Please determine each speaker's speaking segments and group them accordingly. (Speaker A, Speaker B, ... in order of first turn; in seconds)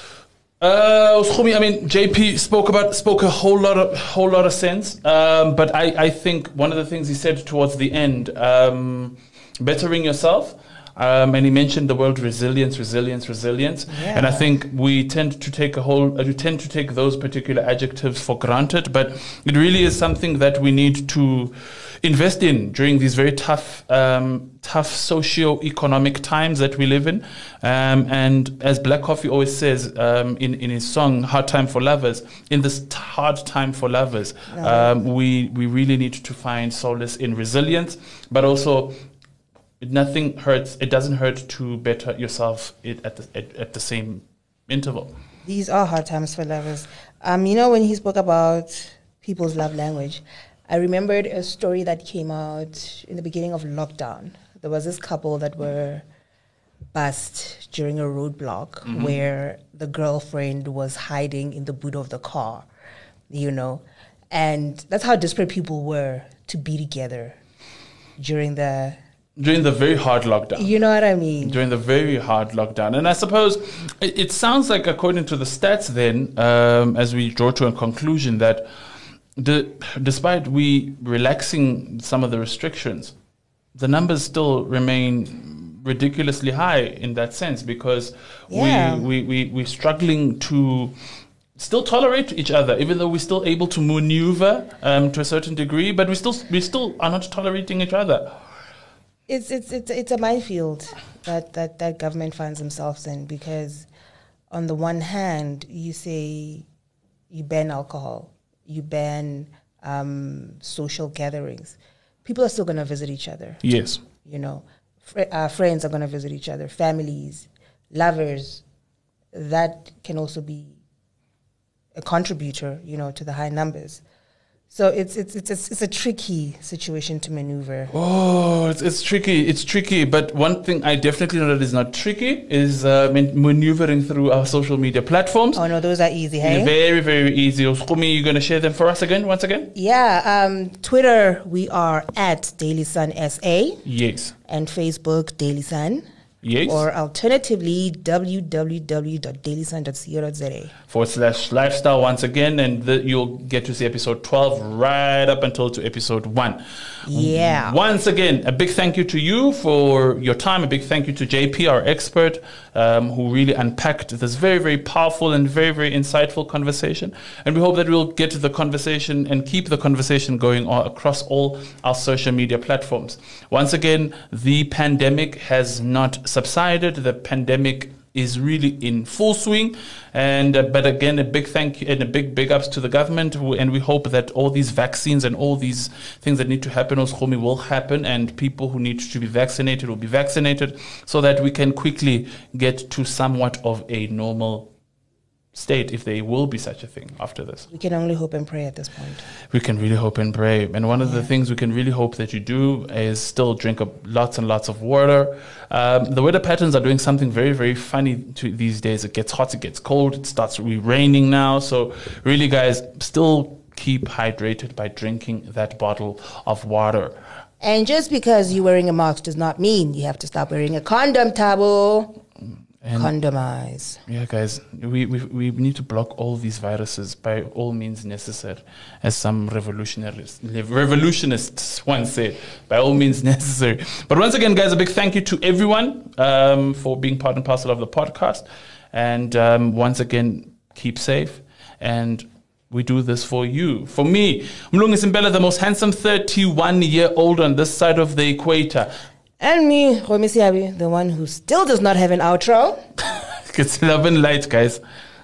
Speaker A: 0.6-38.9, 39.8-45.1, 58.9-59.2, 69.4-70.7, 71.4-78.7, 79.3-83.1, 83.7-90.9, 91.6-98.3, 113.6-114.0, 127.9-135.6, 136.4-139.7, 143.8-144.3, 146.4-146.8, 150.9-194.7, 195.5-197.7, 199.5-217.2, 222.8-223.1, 224.1-248.9, 253.1-254.8
Speaker B: 13.9-14.5, 34.5-34.9, 45.4-56.0, 56.9-62.7, 63.3-67.3, 68.2-69.0, 70.5-71.6, 88.5-89.1, 99.3-103.9, 104.5-106.7, 107.3-113.6, 114.2-118.6, 119.3-120.8, 121.9-124.0, 124.7-127.9, 135.5-136.7, 139.7-143.8, 144.5-146.0, 146.6-150.7, 157.0-157.8, 197.7-199.2, 201.0-201.3, 217.6-222.2, 222.9-224.0, 249.4-252.8